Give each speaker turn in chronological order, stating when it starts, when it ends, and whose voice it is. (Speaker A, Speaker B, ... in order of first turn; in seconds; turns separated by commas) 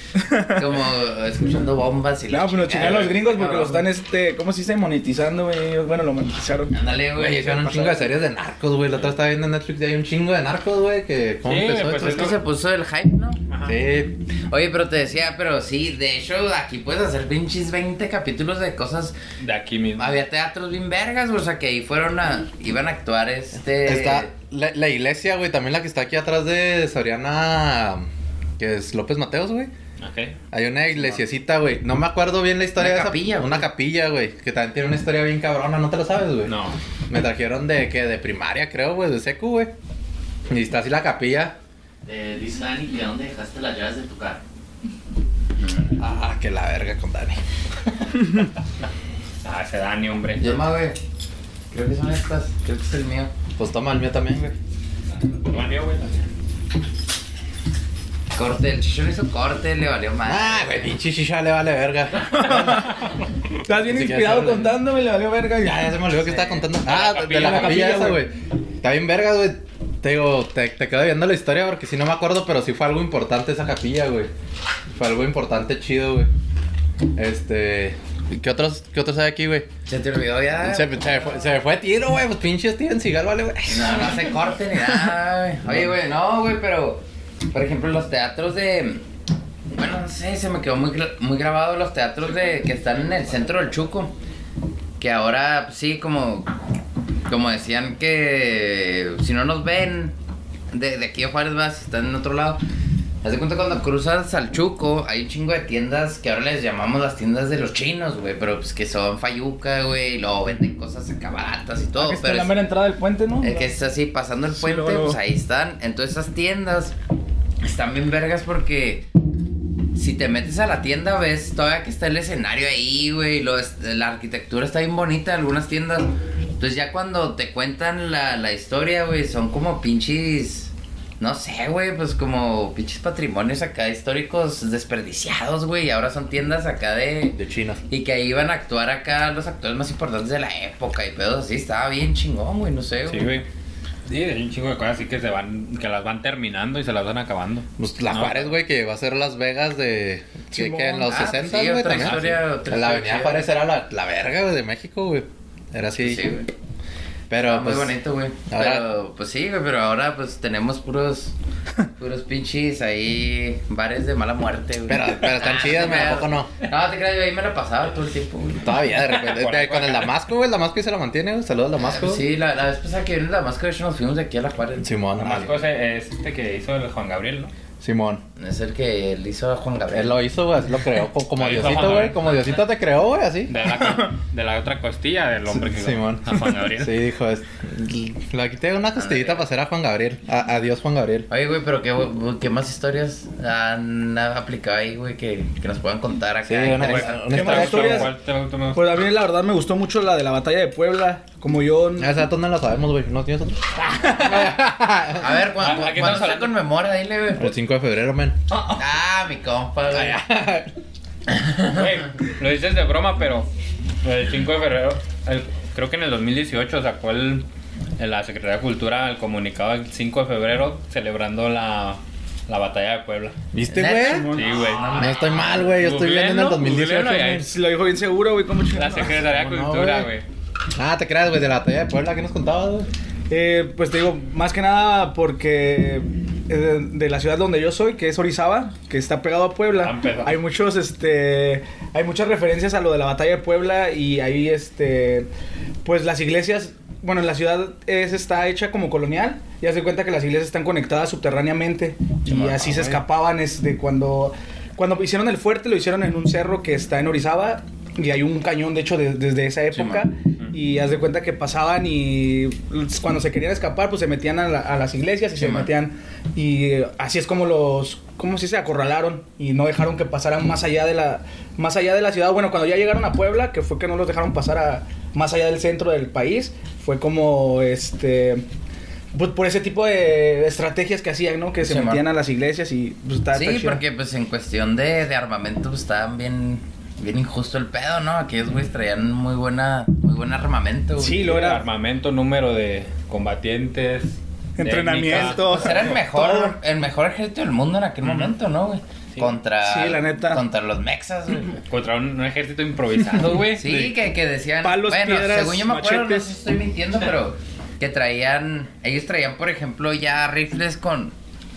Speaker A: 0.2-0.6, Speaker B: 0.5-3.9, Speaker A: 2.3-6.8, Speaker B: 6.7-7.6, Speaker C: 7.1-12.3, Speaker A: 7.5-8.1, Speaker D: 11.4-12.4, Speaker B: 12.0-13.4, Speaker D: 13.5-13.8, Speaker C: 13.6-14.1, Speaker B: 14.5-19.1, Speaker D: 19.4-20.2, Speaker B: 20.0-24.3, Speaker C: 23.8-28.1, Speaker C: 28.6-29.7, Speaker D: 30.0-30.4, Speaker C: 30.5-36.5, Speaker B: 30.9-31.2, Speaker B: 32.8-33.7, Speaker D: 36.4-36.8, Speaker C: 37.1-39.7, Speaker C: 40.5-41.5, Speaker E: 42.0-44.4, Speaker B: 45.6-45.9, Speaker C: 46.0-47.4, Speaker D: 49.4-50.6, Speaker B: 50.4-51.0, Speaker B: 51.7-53.3, Speaker C: 53.6-54.5, Speaker D: 55.3-56.3, Speaker B: 58.3-60.9, Speaker C: 60.2-63.0, Speaker A: 62.4-62.9, Speaker A: 63.6-65.9, Speaker C: 63.8-64.8, Speaker C: 65.6-74.3, Speaker D: 66.7-68.2, Speaker A: 67.3-68.2, Speaker C: 74.9-76.3, Speaker C: 77.2-79.7, Speaker B: 79.8-81.6, Speaker C: 80.6-84.3, Speaker B: 83.7-89.0, Speaker C: 85.7-85.9, Speaker B: 89.7-94.1, Speaker B: 95.0-96.5, Speaker B: 97.3-100.1, Speaker B: 100.7-102.6, Speaker B: 103.2-112.5, Speaker A: 112.0-113.7, Speaker B: 113.4-116.9, Speaker A: 114.5-115.2, Speaker B: 117.6-119.0, Speaker B: 119.9-137.4, Speaker C: 137.3-137.8, Speaker B: 137.9-143.3, Speaker D: 143.1-143.4, Speaker D: 144.1-148.5, Speaker C: 147.8-156.3, Speaker A: 150.5-151.2, Speaker B: 151.0-153.5, Speaker D: 151.9-152.4, Speaker B: 156.0-156.5, Speaker C: 157.3-157.9, Speaker B: 157.4-161.3, Speaker C: 158.5-158.8, Speaker B: 162.0-168.7, Speaker C: 164.9-166.5, Speaker C: 168.6-172.2, Speaker D: 169.0-170.1, Speaker B: 171.8-174.9, Speaker C: 174.8-175.5, Speaker D: 175.2-177.5, Speaker C: 177.8-178.2, Speaker B: 178.4-180.2, Speaker C: 179.9-183.6, Speaker D: 181.3-182.5, Speaker D: 183.5-187.0, Speaker C: 185.5-191.3, Speaker B: 188.9-189.4, Speaker B: 191.3-197.2, Speaker C: 196.4-198.1, Speaker D: 196.8-199.0, Speaker A: 197.3-198.1, Speaker A: 198.7-202.1, Speaker C: 202.0-205.4, Speaker B: 205.2-207.5, Speaker D: 205.6-206.6, Speaker C: 207.3-208.4, Speaker D: 208.5-208.8, Speaker B: 208.7-210.2, Speaker C: 209.9-210.7, Speaker D: 211.6-213.5, Speaker D: 214.0-217.4, Speaker D: 218.0-223.3, Speaker C: 223.5-227.5, Speaker B: 223.7-225.7, Speaker A: 223.9-224.6, Speaker D: 224.3-227.5, Speaker A: 227.4-229.2, Speaker D: 228.7-230.2, Speaker C: 229.2-230.1, Speaker C: 230.8-232.9, Speaker A: 233.3-245.3, Speaker D: 239.7-240.4, Speaker A: 245.8-278.4, Speaker B: 252.2-253.0, Speaker B: 259.7-260.1, Speaker B: 265.4-265.7, Speaker A: 279.1-283.8, Speaker B: 281.6-282.0, Speaker B: 283.3-291.3, Speaker A: 291.0-291.6, Speaker D: 291.2-295.9, Speaker A: 294.6-296.6, Speaker B: 295.1-301.6, Speaker D: 298.0-298.3, Speaker A: 299.6-300.4, Speaker D: 301.7-303.9, Speaker B: 303.5-311.1, Speaker A: 304.6-306.3